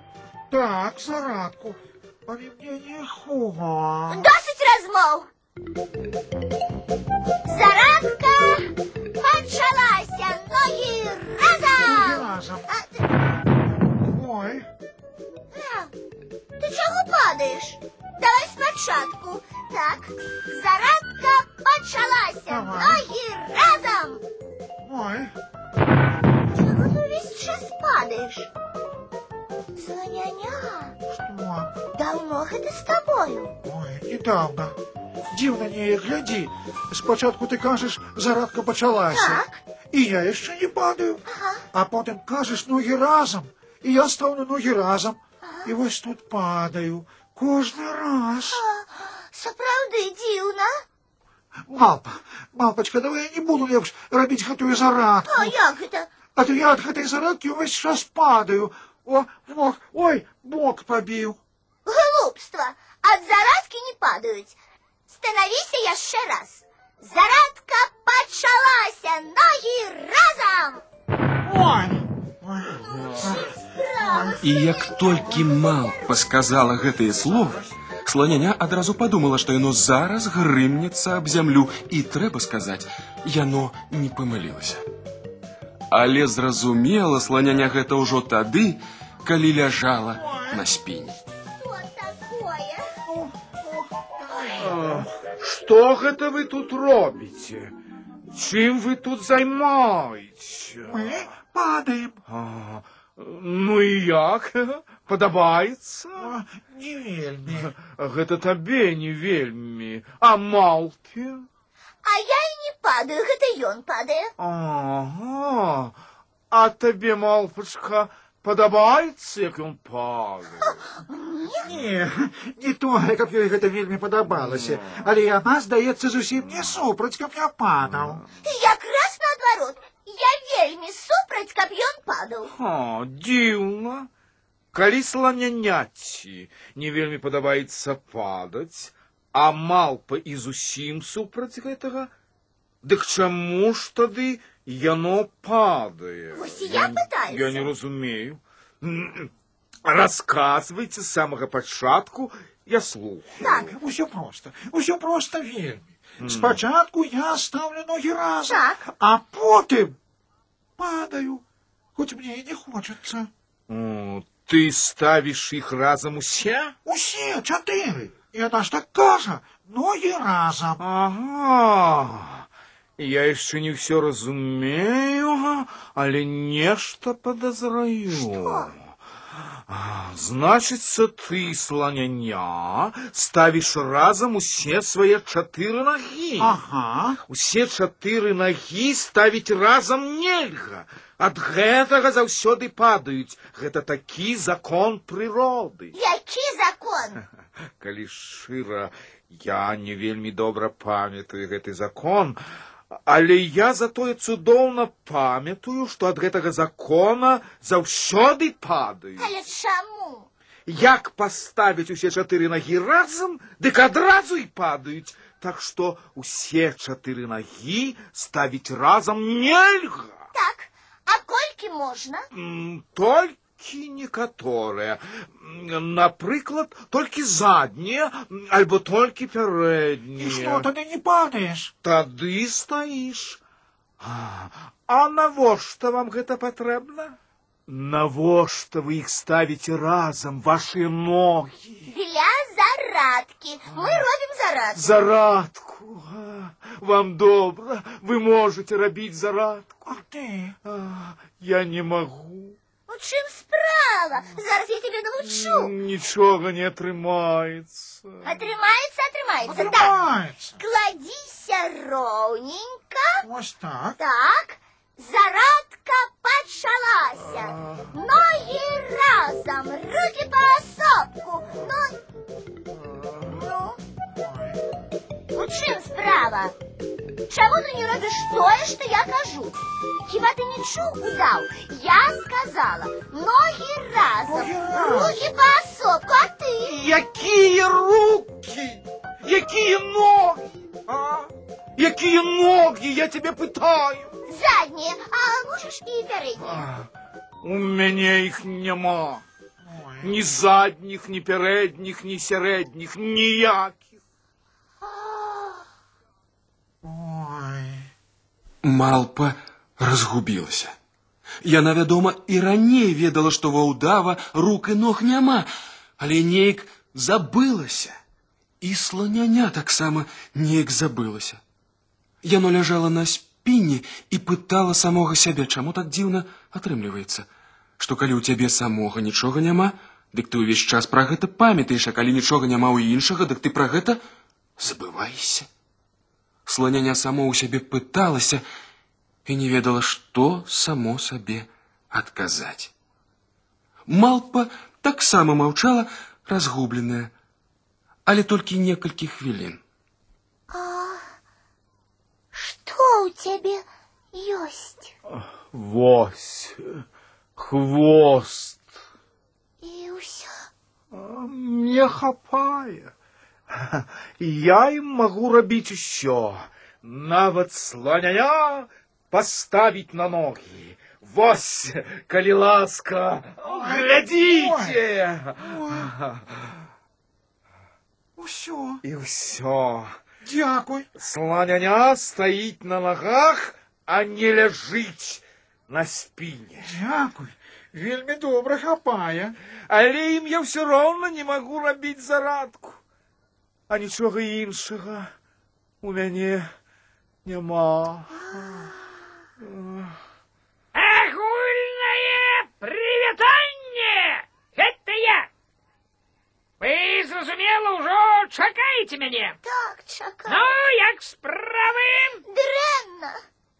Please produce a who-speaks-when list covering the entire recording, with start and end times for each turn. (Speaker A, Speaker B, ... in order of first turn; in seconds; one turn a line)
Speaker A: 0.5-4.3
Speaker B: 4.1-5.3
Speaker B: 7.5-13.0
Speaker A: 11.7-12.7
Speaker A: 13.9-14.7
Speaker B: 15.5-15.9
Speaker B: 16.6-24.2
Speaker A: 22.5-23.0
Speaker A: 24.8-25.3
Speaker B: 26.5-28.5
Speaker B: 29.8-30.9
Speaker A: 31.1-31.8
Speaker B: 31.9-33.5
Speaker A: 33.6-34.8
Speaker A: 35.3-48.6
Speaker B: 39.1-39.6
Speaker B: 41.3-41.6
Speaker B: 45.4-45.7
Speaker B: 48.5-50.8
Speaker A: 51.7-55.5
Speaker B: 55.3-56.1
Speaker A: 56.4-61.4
Speaker B: 61.9-64.5
Speaker B: 65.1-70.8
Speaker A: 71.4-73.5
Speaker B: 72.8-74.9
Speaker A: 74.0-74.4
Speaker C: 74.4-84.8
Speaker C: 85.9-91.2
Speaker A: 90.2-90.6
Speaker B: 91.5-92.9
Speaker A: 93.0-95.1
Speaker D: 94.6-97.7
Speaker D: 98.3-101.1
Speaker A: 100.8-102.2
Speaker D: 102.3-106.3
Speaker A: 106.2-107.7
Speaker D: 107.5-111.5
Speaker B: 112.0-114.3
Speaker D: 114.4-116.0
Speaker D: 116.5-120.8
Speaker B: 120.6-121.7
Speaker A: 121.6-128.2
Speaker D: 124.3-125.0
Speaker D: 127.8-128.3
Speaker B: 128.4-132.5
Speaker D: 132.5-134.1
Speaker D: 134.7-142.1
Speaker D: 142.8-149.3
Speaker B: 146.3-147.7
Speaker D: 149.8-153.5
Speaker B: 153.4-153.7
Speaker A: 153.4-160.0
Speaker D: 156.2-156.6
Speaker B: 158.5-158.8
Speaker A: 160.8-161.4
Speaker A: 161.9-163.3
Speaker D: 163.7-166.7
Speaker A: 166.8-170.8
Speaker D: 170.8-172.4
Speaker D: 173.0-178.7
Speaker B: 178.2-178.7
Speaker D: 179.7-186.5
Speaker A: 186.4-187.2
Speaker D: 187.3-195.9
Speaker B: 195.9-197.2
Speaker D: 197.8-202.4
Speaker D: 202.9-209.3
Speaker B: 209.2-210.3
Speaker D: 210.7-220.2
Speaker B: 220.3-222.2
Speaker D: 222.3-230.7
Speaker A: 230.2-231.7
Speaker D: 231.8-233.4
Speaker D: 234.0-237.2
Speaker D: 237.7-241.8
Speaker B: 241.9-244.9
Speaker D: 244.7-249.9
Speaker A: 249.8-250.6
Speaker D: 250.6-252.6
Speaker B: 252.9-255.7
Speaker D: 255.2-258.4
Speaker B: 258.2-259.9
Speaker A: 259.4-260.6
Speaker B: 260.6-263.2
Speaker A: 263.2-264.0
Speaker B: 264.0-271.9
Speaker D: 267.2-267.9
Speaker D: 272.7-273.4
Speaker A: 273.3-274.6
Speaker B: 275.3-276.5
Speaker B: 277.3-286.8
Speaker A: 284.2-285.2
Speaker D: 286.6-294.1
Speaker B: 294.3-296.6
Speaker D: 296.4-296.9
Speaker D: 297.4-299.2
Speaker A: 299.6-300.1
Speaker D: 300.0-303.9
Speaker B: 304.8-305.6
Speaker A: 306.8-307.9
Speaker C: 308.6-310.7
Speaker C: 311.4-315.5
Speaker C: 316.0-317.9
Speaker C: 318.6-321.4
Speaker C: 322.2-327.3
Speaker C: 327.8-334.0
Speaker C: 334.6-335.5
Speaker C: 336.4-338.4
Speaker C: 339.2-342.7
Speaker C: 343.9-347.1
Speaker C: 348.1-349.6
Speaker B: 350.5-351.0
Speaker B: 352.3-354.9
Speaker D: 355.1-356.8
Speaker D: 357.4-358.7
Speaker B: 359.6-360.5
Speaker D: 360.9-362.9
Speaker D: 363.5-376.6
Speaker A: 373.4-374.8
Speaker A: 375.4-375.9
Speaker A: 378.2-378.8
Speaker D: 378.8-380.0
Speaker A: 380.2-380.9
Speaker D: 380.9-386.8
Speaker A: 386.6-389.4
Speaker D: 389.7-392.8
Speaker D: 393.7-395.1
Speaker D: 395.8-396.5
Speaker D: 397.2-398.1
Speaker B: 398.1-398.7
Speaker D: 399.4-399.9
Speaker E: 400.7-405.3
Speaker E: 406.6-409.4
Speaker B: 409.4-410.4
Speaker E: 410.3-412.2
Speaker B: 412.2-413.2